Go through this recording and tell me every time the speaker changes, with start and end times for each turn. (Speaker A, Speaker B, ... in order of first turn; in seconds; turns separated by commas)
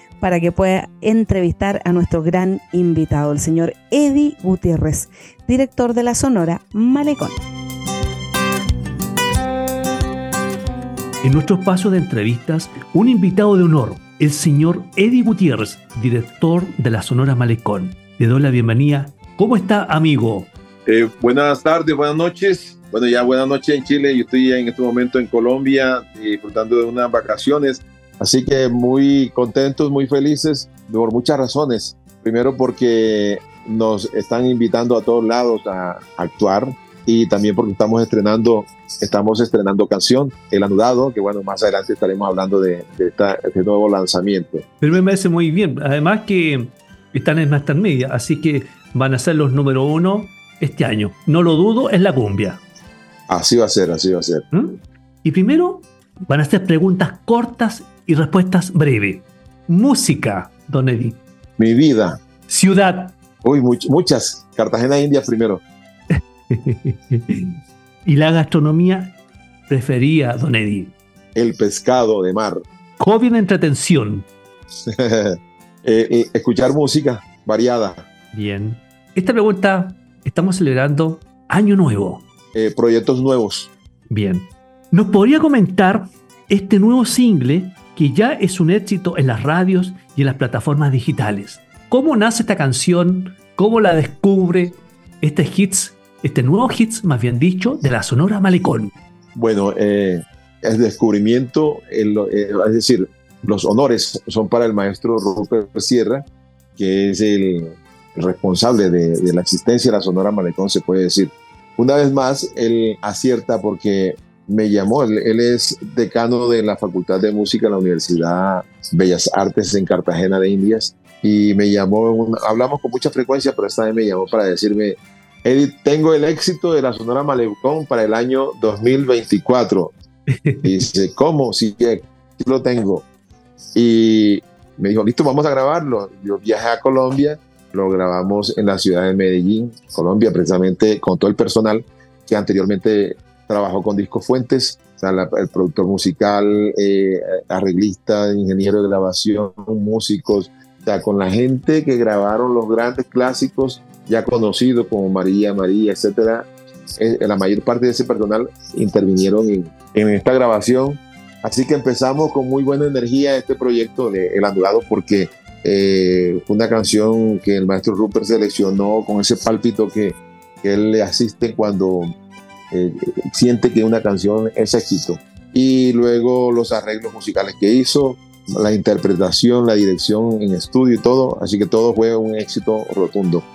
Speaker A: 0.2-7.4, Speaker B: 11.2-20.5, Speaker C: 20.9-44.6, Speaker B: 44.8-52.6, Speaker C: 53.3-54.4, Speaker B: 54.5-61.2, Speaker C: 61.6-62.2, Speaker B: 62.5-63.1, Speaker C: 63.4-65.6, Speaker B: 66.1-69.1, Speaker B: 69.7-70.9, Speaker C: 71.3-72.6, Speaker B: 73.0-74.3, Speaker C: 74.9-78.1, Speaker B: 78.3-82.2, Speaker C: 82.5-83.7, Speaker B: 84.1-98.9, Speaker C: 99.3-106.2, Speaker C: 106.8-129.9, Speaker B: 130.3-130.7, Speaker C: 130.6-133.0, Speaker C: 133.7-156.5, Speaker C: 157.0-172.1, Speaker C: 172.7-183.4